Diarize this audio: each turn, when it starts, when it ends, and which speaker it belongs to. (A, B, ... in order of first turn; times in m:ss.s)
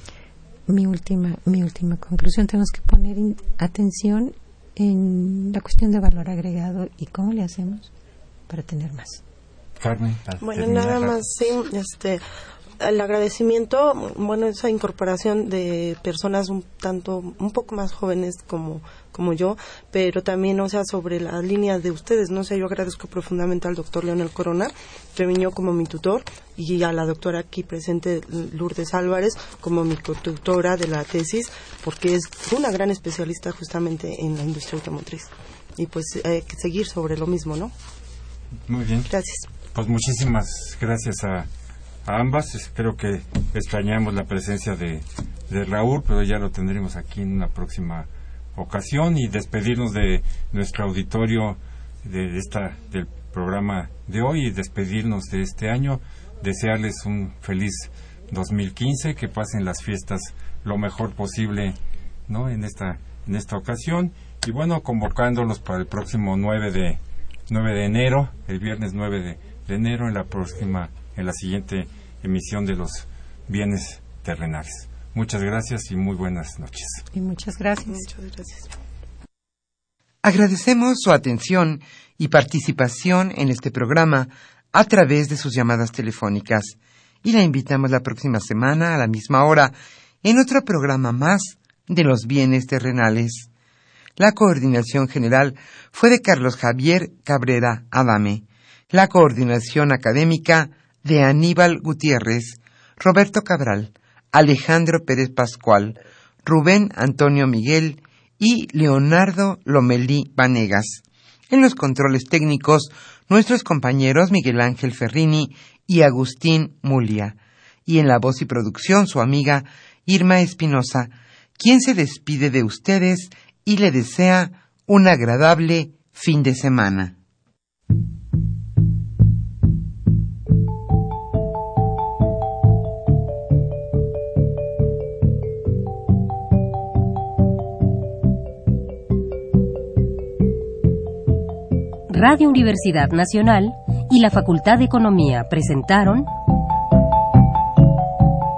0:00.7-0:07.9 A
0:08.5-0:09.2 A
0:09.8-0:11.2 B
0:10.4-0:12.2 C
0:12.8-0:37.7 C
0:38.7-0:39.1 B
0:39.1-0:39.5 C
0:39.7-0:41.5 B
0:42.0-1:17.1 B
1:17.1-1:18.1 A
1:17.9-1:18.8 C
1:20.2-1:33.5 D
1:34.2-2:07.2 D
2:22.1-2:26.3 E